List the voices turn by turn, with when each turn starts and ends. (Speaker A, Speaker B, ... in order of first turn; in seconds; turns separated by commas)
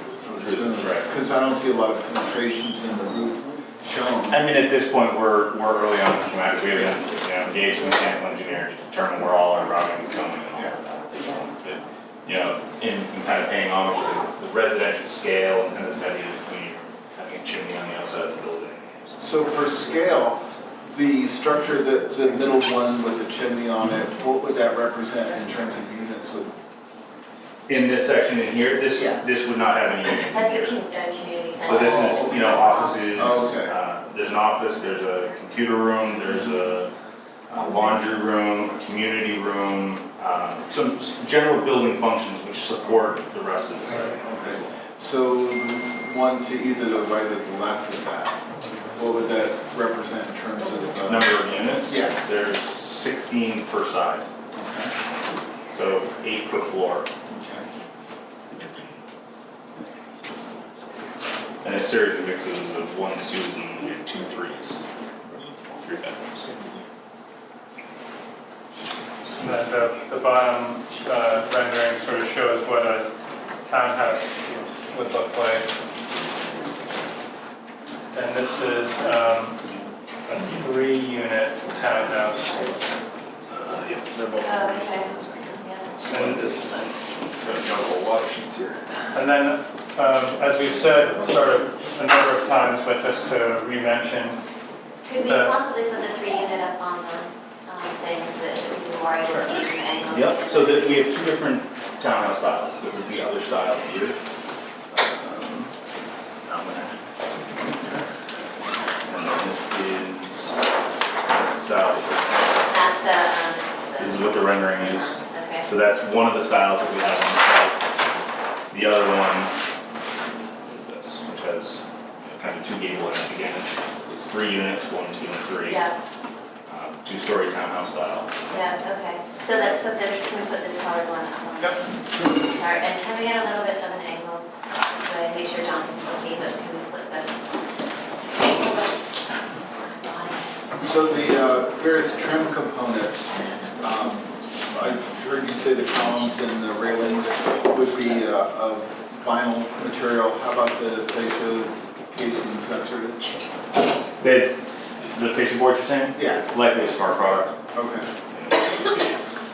Speaker A: 0.2-4.4, Speaker B: 0.4-1.1, Speaker B: 4.3-19.7, Speaker A: 19.2-26.5, Speaker B: 27.7-30.8, Speaker C: 30.2-33.2, Speaker B: 31.6-36.9, Speaker A: 31.7-32.0, Speaker A: 33.1-33.7, Speaker B: 37.5-44.7, Speaker A: 44.2-48.4, Speaker A: 49.0-52.2, Speaker B: 51.0-54.3, Speaker A: 54.6-54.9, Speaker B: 55.7-57.1, Speaker A: 57.3-57.6, Speaker B: 61.6-64.8, Speaker B: 65.3-66.5, Speaker D: 69.3-73.1, Speaker D: 73.6-75.7, Speaker D: 78.1-79.6, Speaker D: 80.3-82.8, Speaker C: 82.1-82.7, Speaker B: 83.5-86.8, Speaker C: 84.4-86.9, Speaker D: 86.1-86.5, Speaker B: 87.4-88.8, Speaker D: 89.1-94.4, Speaker C: 95.0-101.0, Speaker D: 95.3-95.6, Speaker B: 100.1-104.2, Speaker B: 104.9-105.7, Speaker B: 106.5-107.0, Speaker B: 107.7-108.0, Speaker B: 109.0-110.6, Speaker B: 111.2-112.8, Speaker C: 112.7-115.7, Speaker B: 114.0-117.8, Speaker B: 118.7-119.5, Speaker B: 120.6-125.8, Speaker C: 125.6-126.0, Speaker B: 126.7-128.3, Speaker C: 128.5-137.4, Speaker C: 138.2-140.5, Speaker A: 140.8-153.4, Speaker C: 141.8-144.9, Speaker C: 146.9-148.2, Speaker B: 154.2-157.6, Speaker A: 156.2-156.4, Speaker A: 157.7-158.1, Speaker B: 158.3-159.2